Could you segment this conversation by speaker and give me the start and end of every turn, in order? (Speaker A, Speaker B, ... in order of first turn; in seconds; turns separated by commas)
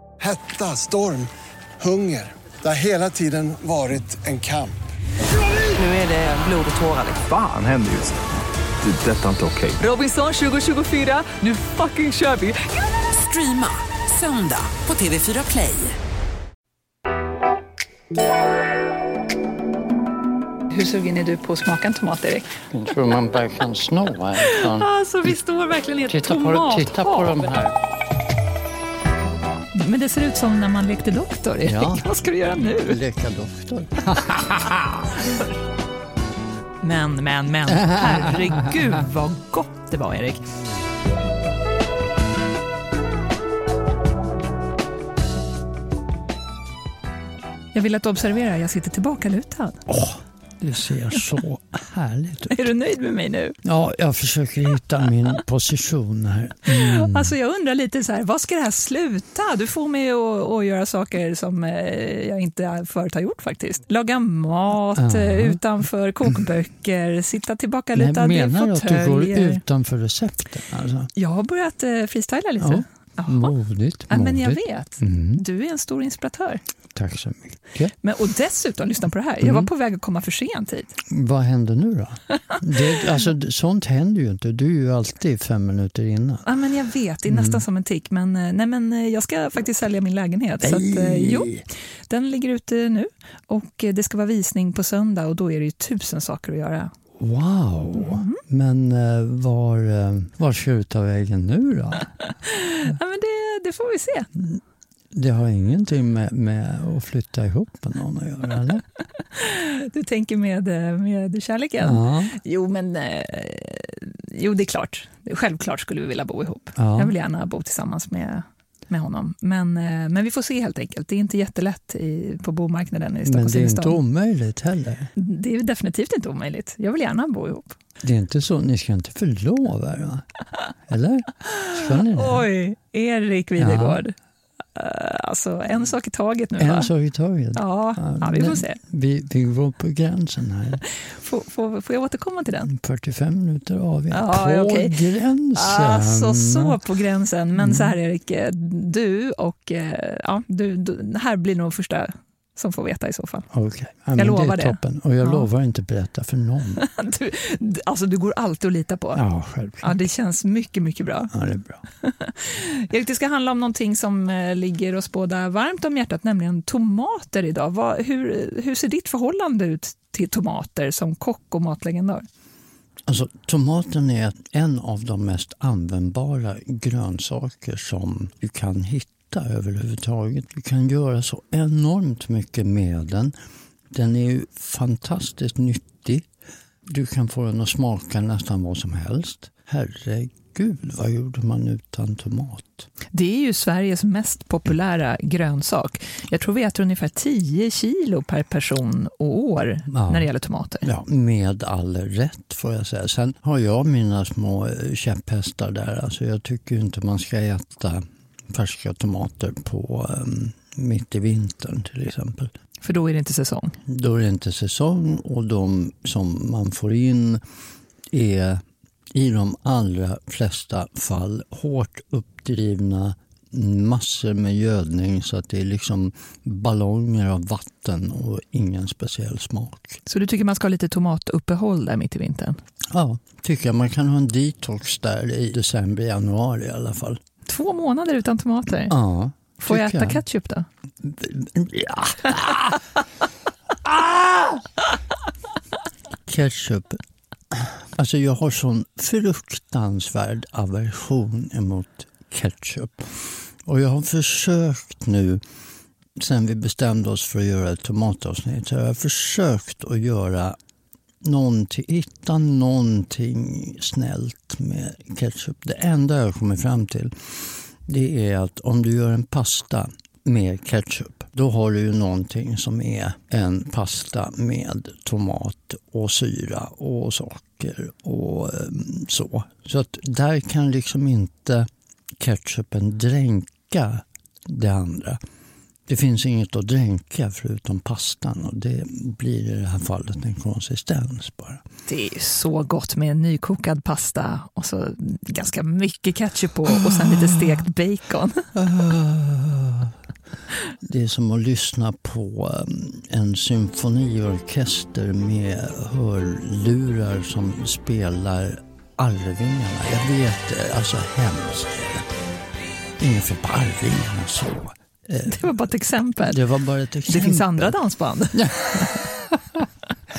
Speaker A: 0.2-4.8, Speaker B: 5.4-7.2, Speaker C: 7.2-8.2, Speaker C: 8.8-9.8, Speaker B: 9.8-16.0, Speaker D: 20.7-22.6, Speaker E: 22.7-24.9, Speaker D: 24.4-27.5, Speaker E: 26.1-27.8, Speaker D: 29.7-33.0, Speaker E: 31.6-32.1, Speaker E: 32.8-35.1, Speaker D: 35.2-35.5, Speaker D: 36.8-40.5, Speaker E: 37.7-38.4, Speaker D: 47.7-49.9, Speaker E: 49.9-52.7, Speaker D: 52.5-53.6, Speaker E: 53.6-57.4, Speaker D: 56.7-69.6, Speaker E: 65.0-65.6, Speaker E: 68.0-71.1, Speaker D: 71.2-73.5, Speaker E: 72.6-75.4, Speaker D: 74.1-76.6, Speaker E: 76.9-77.9, Speaker D: 78.0-80.9, Speaker E: 79.4-79.7, Speaker E: 81.1-86.5, Speaker D: 86.5-91.5, Speaker E: 87.3-87.6, Speaker E: 90.6-91.6, Speaker D: 92.1-96.9, Speaker E: 97.2-102.1, Speaker D: 98.0-98.4, Speaker D: 102.4-104.3, Speaker E: 104.4-104.6, Speaker E: 105.1-108.8, Speaker D: 109.3-124.0, Speaker E: 111.8-112.4, Speaker E: 116.8-117.1, Speaker E: 123.3-125.1, Speaker D: 125.2-127.8, Speaker E: 128.0-130.3, Speaker E: 130.9-132.5, Speaker D: 131.6-134.2, Speaker E: 133.6-134.0, Speaker D: 134.8-136.9, Speaker E: 136.6-140.8, Speaker D: 137.6-138.8, Speaker D: 141.0-142.7, Speaker E: 142.7-146.8, Speaker D: 144.1-145.0, Speaker D: 145.5-153.5, Speaker E: 147.6-147.9, Speaker E: 153.5-156.8, Speaker D: 154.2-155.5, Speaker D: 156.8-159.2, Speaker E: 159.1-160.0, Speaker D: 159.8-161.3, Speaker E: 161.3-161.8, Speaker D: 162.0-172.2, Speaker E: 173.1-183.3, Speaker E: 183.9-186.3, Speaker E: 186.9-192.9, Speaker D: 193.1-200.9, Speaker E: 199.9-200.3, Speaker E: 200.8-212.5, Speaker D: 212.8-213.8, Speaker E: 213.9-217.4, Speaker E: 218.1-230.0, Speaker D: 230.1-232.6, Speaker E: 232.9-237.2, Speaker D: 237.5-239.0, Speaker E: 238.9-240.2, Speaker D: 239.6-240.7, Speaker E: 241.0-242.8, Speaker E: 243.8-244.7, Speaker E: 246.3-247.0, Speaker E: 247.5-255.4, Speaker E: 256.2-260.6, Speaker E: 261.2-285.2, Speaker E: 285.9-291.6, Speaker D: 291.9-298.5, Speaker E: 296.7-297.5, Speaker E: 298.6-300.0, Speaker E: 300.8-312.1, Speaker E: 313.0-315.5, Speaker D: 315.3-316.4, Speaker E: 316.2-317.7, Speaker D: 317.1-319.0, Speaker E: 318.3-319.6